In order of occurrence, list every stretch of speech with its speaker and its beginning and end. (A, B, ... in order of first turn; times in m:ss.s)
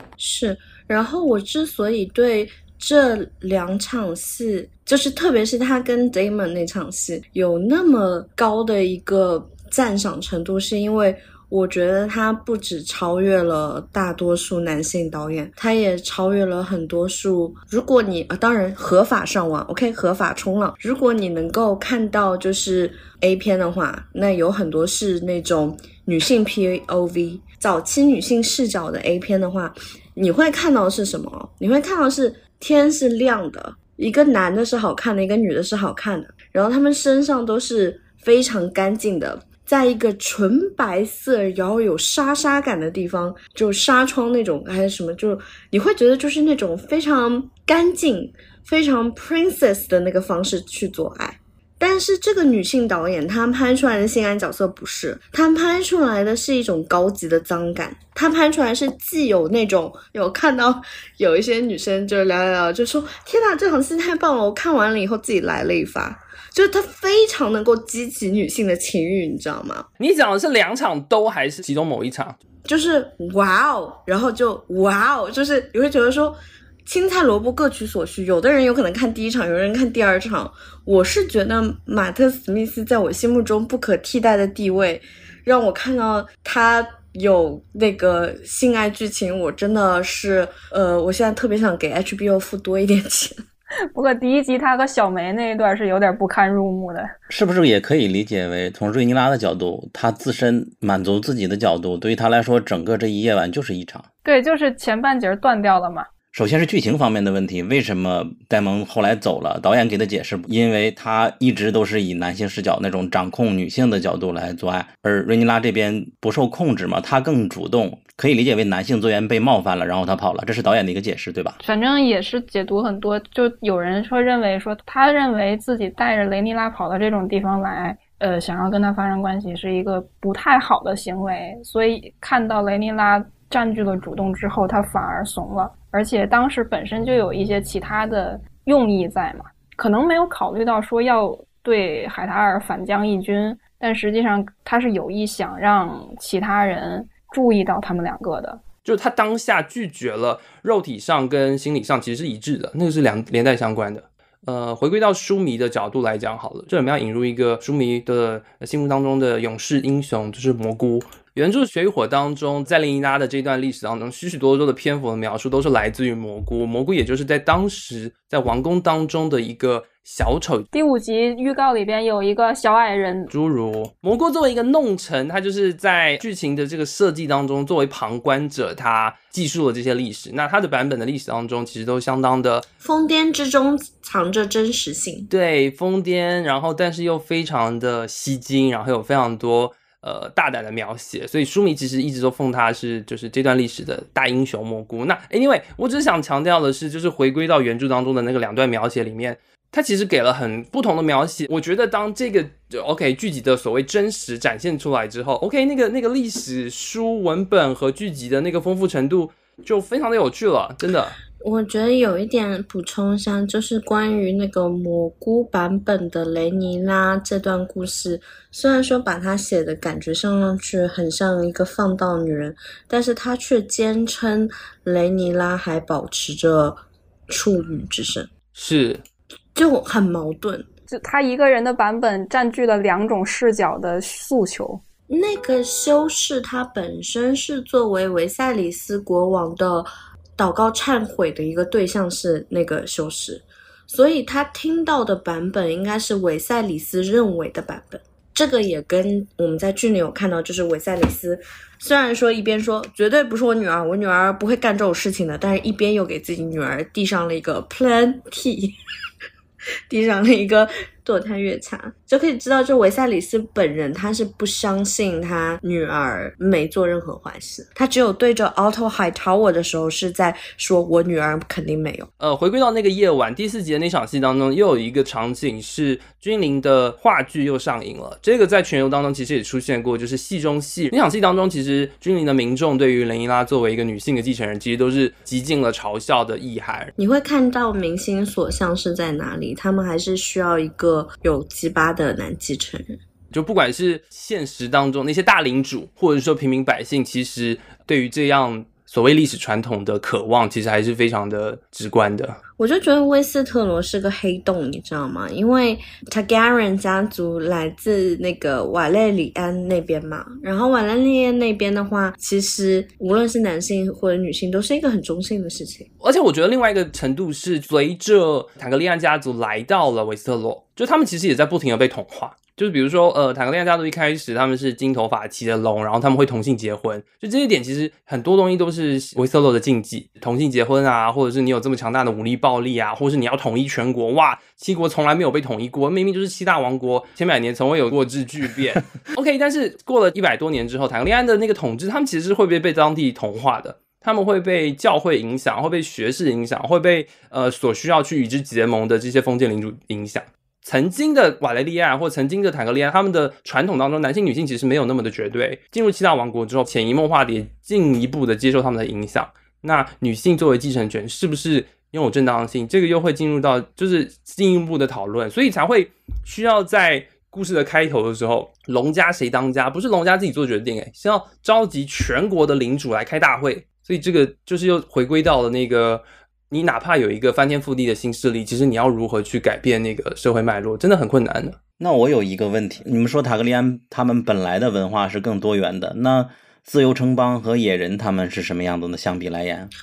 0:00.2-1:09.9 A
1:10.0-1:12.4 B
1:12.7-1:33.4 A
1:33.9-1:37.1 C
1:37.3-1:44.1 D
1:44.2-1:46.1 C
1:46.3-2:01.6 D
2:01.6-2:28.6 C
2:28.8-2:50.7 B
2:50.7-2:53.3 C
2:53.3-3:02.6 B
3:02.8-3:05.3 A
3:05.3-3:31.2 B
3:31.4-3:48.3 A
3:48.6-3:49.0 B
3:49.6-3:50.7 A
3:50.9-3:54.8 C
3:55.1-4:18.7 A
4:19.9-4:32.1 A
4:32.2-4:46.9 B
4:47.0-4:53.0 A
4:53.3-5:02.4 B
5:02.6-5:15.9 A
5:16.0-6:21.6 B
6:21.8-6:29.7 D